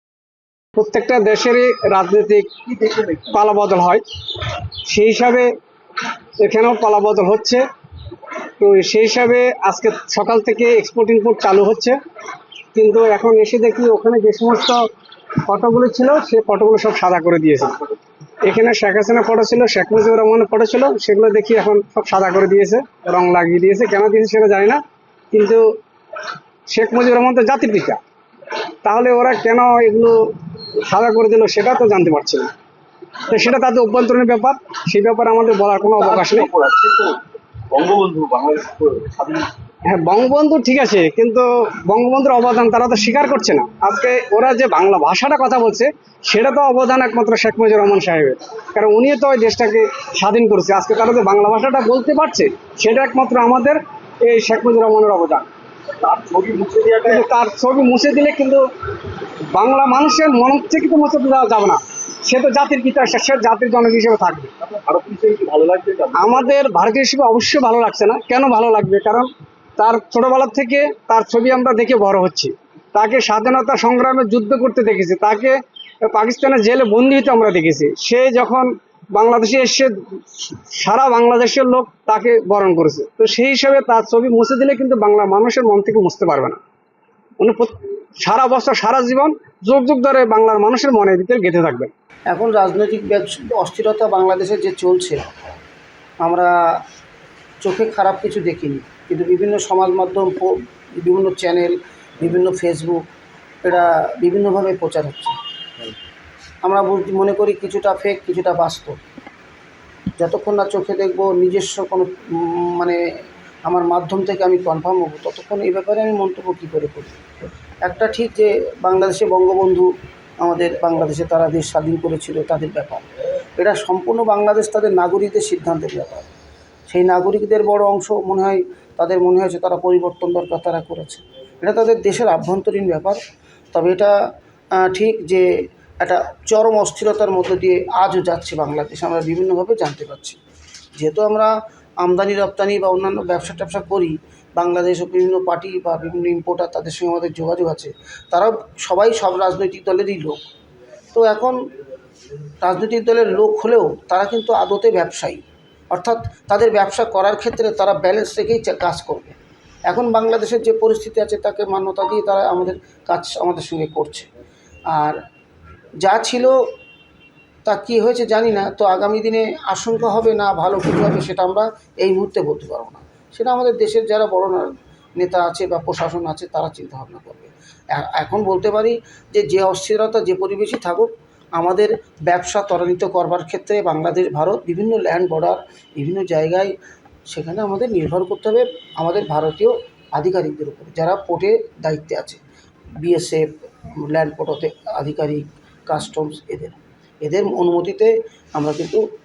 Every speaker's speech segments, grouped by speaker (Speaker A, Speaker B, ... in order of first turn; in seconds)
Speaker A: 0.8-5.5, 6.4-7.6, 8.6-12.0, 12.8-14.8, 15.5-17.8, 18.4-24.8, 25.3-25.6, 26.7-28.0, 28.8-32.5, 33.3-36.5, 39.9-55.5, 57.0-58.6, 59.5-64.5, 66.2-86.6, 87.4-91.9
Speaker B: 36.1-37.2, 37.7-39.4, 56.1-57.2, 64.9-66.5
Speaker C: 92.3-95.3, 96.2-96.5, 97.6-103.0, 103.6-105.4, 106.6-109.0, 110.2-113.0, 113.7-117.2, 117.8-119.9, 120.4-126.3, 126.9-133.2, 133.7-134.1, 134.8-135.5, 136.0-140.4, 141.0-150.4, 151.1-151.6, 152.6-164.3, 164.9-165.2, 166.0-166.6, 167.7-186.7, 187.3-192.4, 193.0-199.0